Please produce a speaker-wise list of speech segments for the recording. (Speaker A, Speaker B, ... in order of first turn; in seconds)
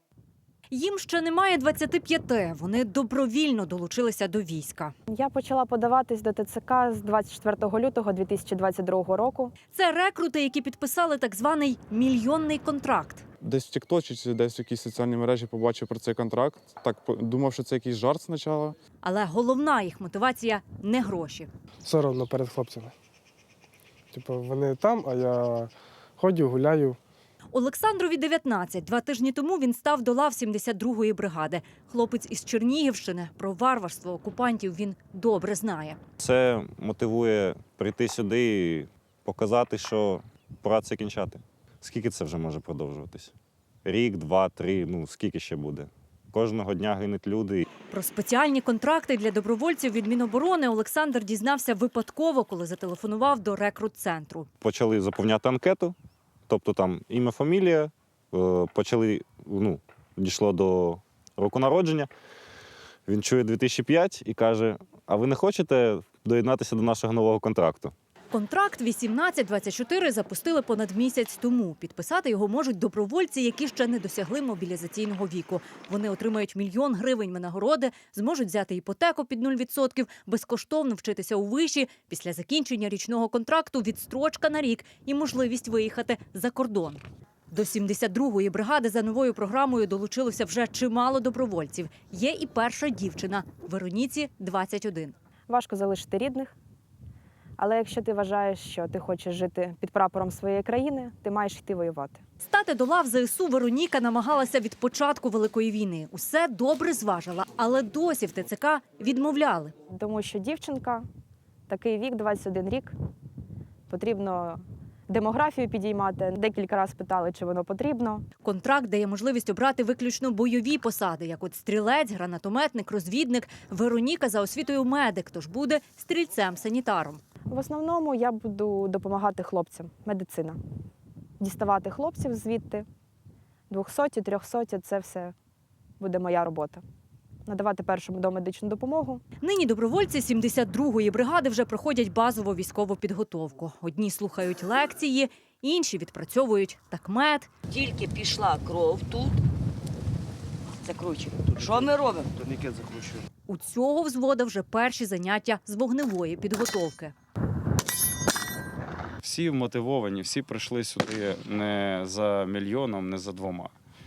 Speaker A: 0.7-5.0, 9.7-13.2, 19.0-21.5, 27.5-36.0, 47.9-54.5, 68.3-87.0, 87.5-95.1, 102.4-109.7, 118.4-127.2, 139.4-147.5, 153.5-157.1
Speaker B: 5.1-9.5, 95.5-96.5, 97.6-102.2, 109.9-111.0, 111.7-112.9, 113.9-118.2, 127.5-130.6, 131.4-132.8, 133.7-135.3, 136.0-136.8, 137.5-139.2
Speaker C: 13.4-18.7
Speaker D: 21.9-22.9, 24.1-27.0
Speaker E: 36.2-43.3, 43.9-47.7, 54.6-56.0, 56.5-62.1, 63.1-67.9
Speaker F: 147.7-149.4, 150.8-153.2
Speaker G: 159.2-163.7